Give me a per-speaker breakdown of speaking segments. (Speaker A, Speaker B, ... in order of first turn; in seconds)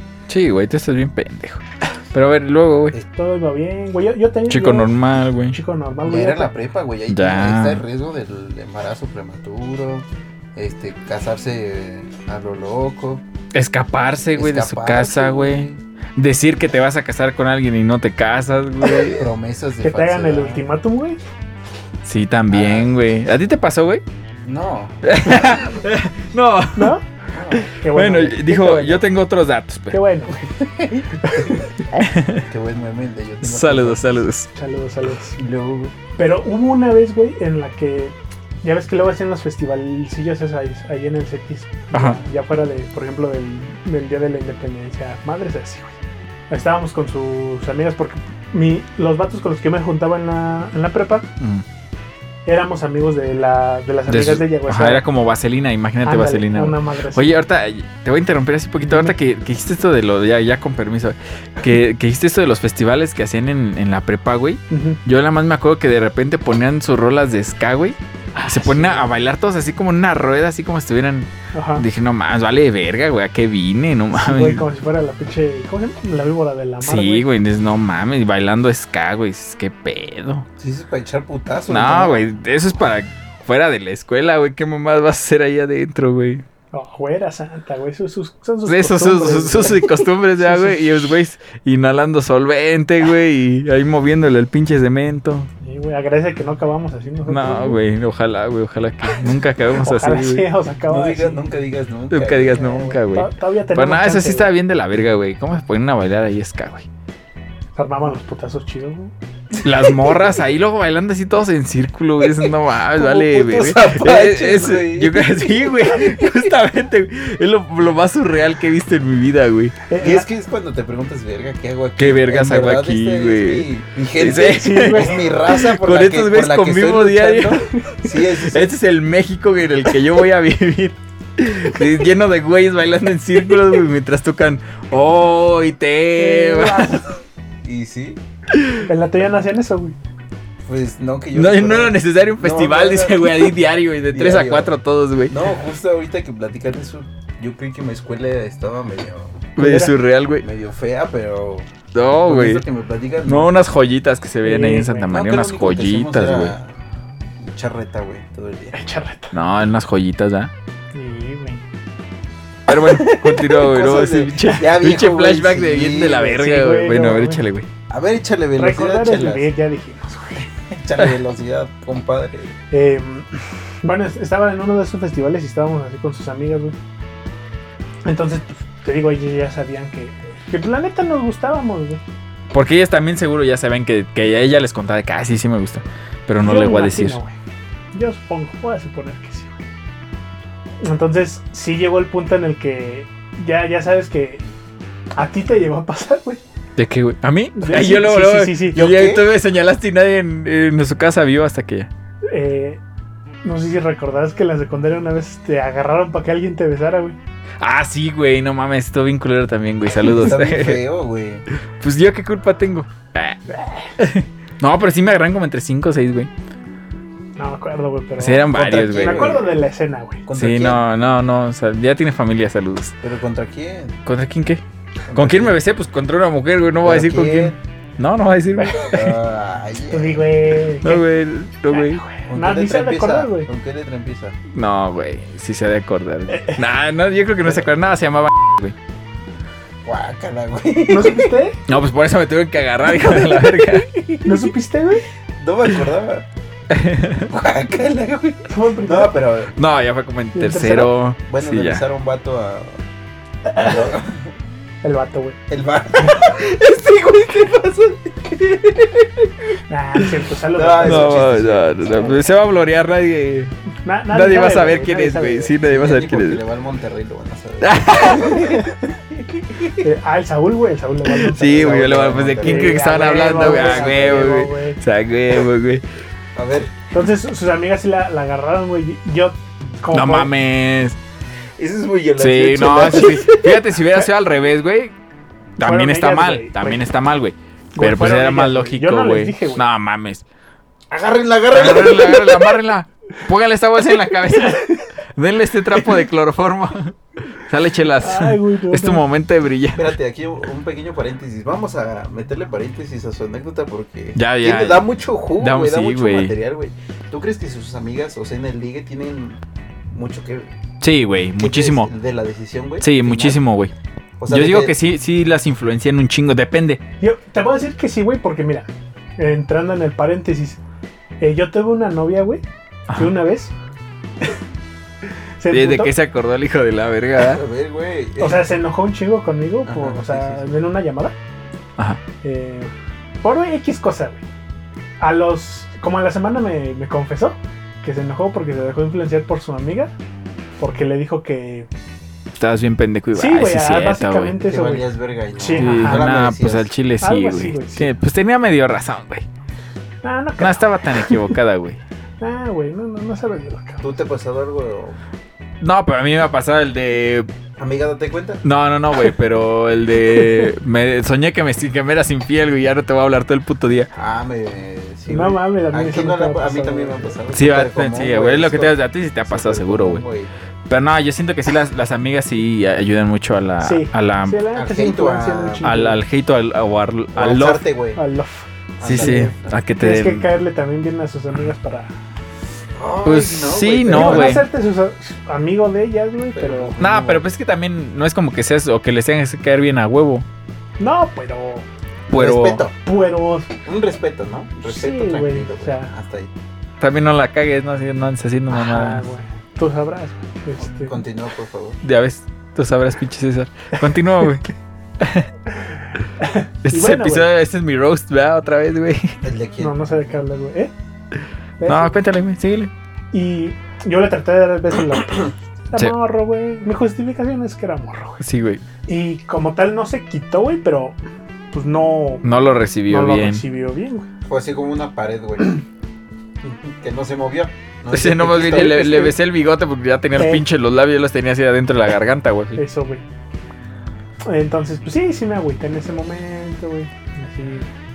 Speaker A: 0.3-3.0, 4.5-5.6, 7.1-7.8, 13.5-19.2, 22.0-24.0, 25.0-27.0, 27.6-30.0, 31.9-32.5, 33.4-34.5, 41.9-42.2, 54.1-74.7, 76.8-80.5, 81.7-86.4, 88.7-95.5, 97.3-100.5, 102.1-106.9, 109.6-119.8, 122.0-127.7, 128.3-137.0, 138.5-138.8, 141.3-145.4, 149.6-150.4, 151.9-152.6, 153.3-156.6, 159.3-160.5, 162.7-167.7, 182.5-187.2, 196.8-201.9, 207.6-210.8, 211.8-216.3, 218.2-219.4, 220.3-223.0, 224.1-229.2, 230.8-232.0, 234.5-238.8, 241.7-243.9, 246.7-247.3, 249.6-251.8, 260.8-263.6, 264.1-266.4, 267.6-268.7, 271.1-275.8, 279.9-281.0, 282.2-284.9, 285.6-290.2, 291.5-299.9, 304.2-304.9, 305.4-306.4, 310.8-311.9, 312.8-313.7, 314.3-316.8, 322.9-323.1, 325.5-327.4, 342.4-344.4, 345.6-349.2, 350.4-351.8, 355.6-357.3, 358.4-363.9, 367.3-370.0, 370.7-374.4, 375.6-377.6, 378.8-380.3, 383.0-384.4, 386.8-390.3, 392.1-392.6, 396.8-399.1, 401.8-404.5, 405.0-405.3, 406.6-409.2, 411.6-412.7, 418.2-418.6, 422.2-423.4, 427.9-432.6
Speaker B: 3.1-4.9, 5.5-6.5, 19.8-21.2, 26.8-27.1, 27.8-29.0, 29.9-30.4, 31.3-31.6, 34.5-35.4, 36.2-46.0, 46.5-51.3, 52.5-55.0, 56.0-57.4, 58.8-59.1, 64.7-65.0, 68.3-69.1, 71.5-71.8, 74.1-77.3, 86.7-91.1, 95.6-97.8, 99.8-101.4, 102.6-104.5, 107.8-109.1, 119.9-120.3, 124.4-125.3, 136.2-137.1, 138.8-140.0, 149.6-150.0, 154.4-155.1, 158.7-159.3, 160.9-161.6, 166.2-167.4, 168.6-170.5, 172.7-176.8, 178.1-182.0, 186.4-187.3, 187.9-189.6, 190.8-194.4, 195.2-196.4, 197.6-198.9, 202.3-202.8, 203.4-207.2, 217.4-220.3, 228.6-229.0, 229.9-231.0, 231.7-233.5, 236.3-236.6, 240.9-241.6, 243.0-243.4, 244.2-245.1, 248.5-249.2, 250.3-250.9, 253.5-253.8, 254.8-255.4, 259.7-262.1, 263.9-265.5, 269.8-271.8, 272.4-274.8, 276.9-280.3, 285.6-286.8, 287.8-289.6, 294.4-294.7, 298.0-299.0, 317.0-320.6, 321.2-323.5, 325.4-325.9, 328.2-331.1, 332.2-332.7, 333.2-334.2, 335.0-339.9, 340.6-341.7, 343.1-344.9, 345.4-346.1, 347.0-347.9, 350.0-351.4, 352.2-353.9, 360.1-360.5, 365.1-367.2, 373.6-376.0, 377.9-381.9, 383.9-386.8, 390.8-391.7, 392.8-393.5, 394.6-395.9, 398.5-401.0, 406.2-407.3, 409.6-410.7, 411.6-411.9, 413.1-418.2, 418.9-421.0, 421.5-422.2, 422.9-424.1, 430.2-430.4, 432.6-433.1, 434.3-437.7
Speaker C: 6.0-13.2, 14.3-15.8, 18.9-20.7, 22.5-23.0, 24.4-25.5, 27.3-27.7, 30.4-31.7, 32.5-34.2, 35.4-35.9, 80.6-82.2, 100.9-102.9, 109.7-110.3, 112.2-116.5, 120.0-128.7, 137.6-138.2, 140.7-143.5, 144.1-144.7, 145.3-149.5, 150.4-151.7, 152.2-153.5, 155.1-156.7, 157.4-158.8, 162.7-166.3, 167.9-169.5, 170.7-172.6, 198.8-199.2, 210.0-211.4, 218.5-219.5, 220.3-220.8, 223.0-224.0, 225.1-225.6, 226.8-227.6, 228.9-230.3, 232.3-234.4, 239.8-241.4, 245.4-246.3, 247.3-249.5, 251.3-252.8, 253.5-254.3, 255.5-259.6, 260.5-262.2, 265.6-269.9, 271.4-274.3, 276.4-276.7, 281.6-283.7, 290.9-292.6, 299.8-309.4, 309.9-310.5, 311.4-313.4, 314.2-314.8, 327.2-328.5, 329.7-330.4, 344.5-346.7, 353.8-355.0, 357.6-358.4, 363.9-370.3, 374.6-375.7, 377.1-378.0, 378.8-379.6, 382.8-384.4, 386.3-387.3, 392.1-392.8, 393.6-396.3, 400.6-401.8, 409.2-409.7, 424.3-425.6, 426.4-429.1